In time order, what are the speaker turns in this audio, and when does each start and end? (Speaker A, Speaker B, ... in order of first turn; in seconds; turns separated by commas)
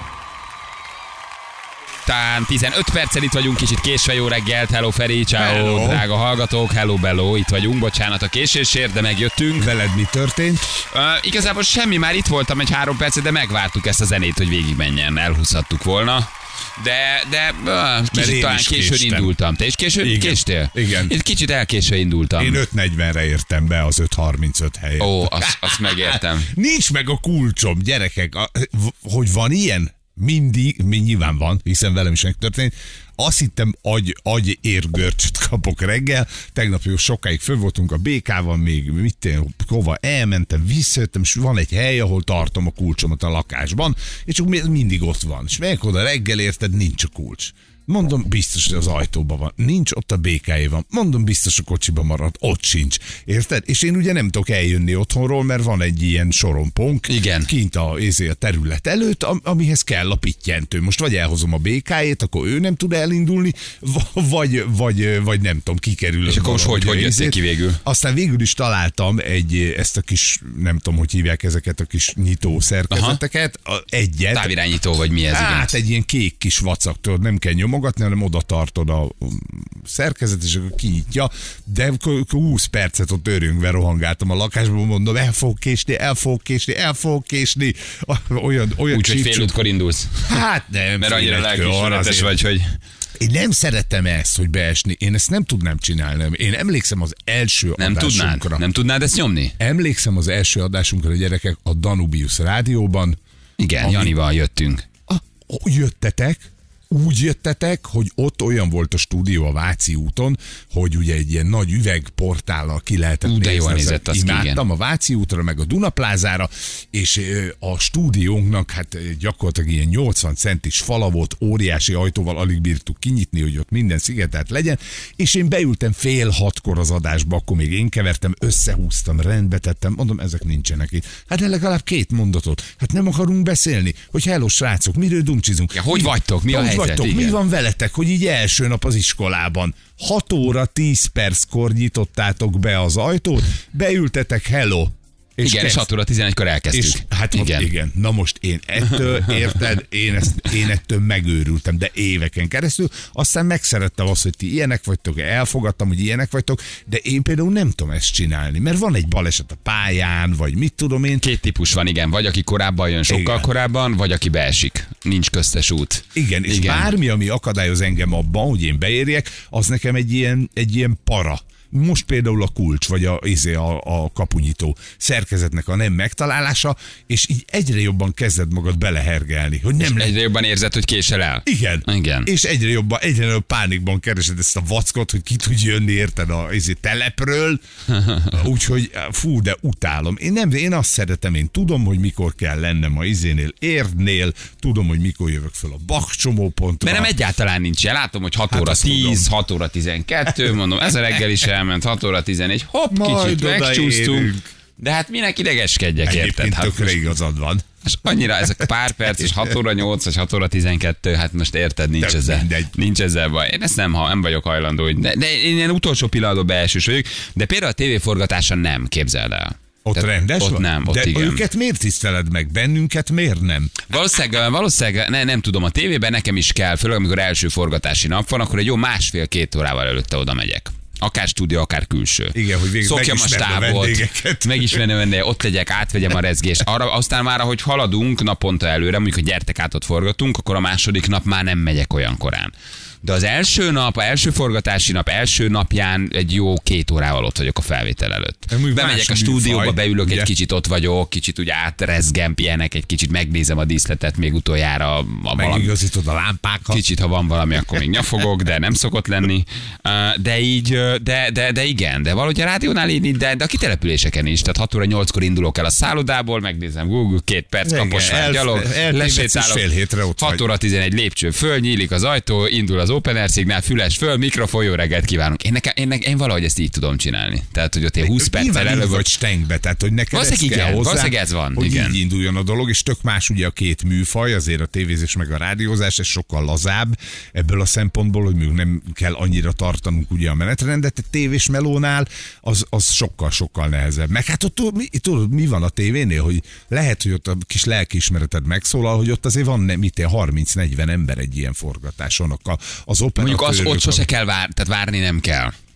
Speaker A: 2.0-9.7, Speaker B: 5.4-6.0, Speaker B: 9.6-10.7, Speaker A: 10.8-22.6, Speaker B: 18.1-19.3, Speaker B: 20.0-21.1, Speaker B: 22.4-74.5, Speaker A: 25.0-26.5, Speaker A: 57.1-57.5, Speaker A: 66.3-67.8, Speaker A: 72.9-73.2, Speaker A: 74.3-75.8, Speaker B: 75.3-89.5, Speaker A: 88.9-90.4, Speaker B: 90.3-92.3, Speaker A: 91.0-92.7, Speaker B: 93.2-98.6, Speaker A: 97.8-99.6, Speaker B: 99.6-103.2, Speaker A: 103.6-104.8, Speaker B: 103.8-104.2, Speaker B: 105.1-145.9, Speaker A: 113.2-114.6, Speaker A: 135.7-137.4, Speaker A: 145.4-147.7, Speaker B: 146.7-161.2, Speaker A: 161.2-166.9, Speaker B: 163.1-163.5, Speaker B: 166.2-180.2, Speaker A: 179.8-182.3, Speaker B: 181.5-187.6, Speaker A: 187.9-188.3, Speaker B: 188.3-197.1, Speaker A: 196.8-207.1, Speaker B: 198.5-199.3, Speaker B: 202.9-204.4, Speaker B: 206.1-207.7, Speaker A: 207.8-221.4, Speaker B: 212.0-212.7, Speaker B: 219.8-223.7, Speaker A: 223.9-255.7, Speaker B: 232.3-234.8, Speaker B: 248.5-250.3, Speaker B: 255.3-256.8, Speaker A: 256.7-269.6, Speaker B: 267.6-270.4, Speaker A: 270.2-279.1, Speaker B: 278.0-304.1, Speaker A: 280.1-282.0, Speaker A: 303.2-305.5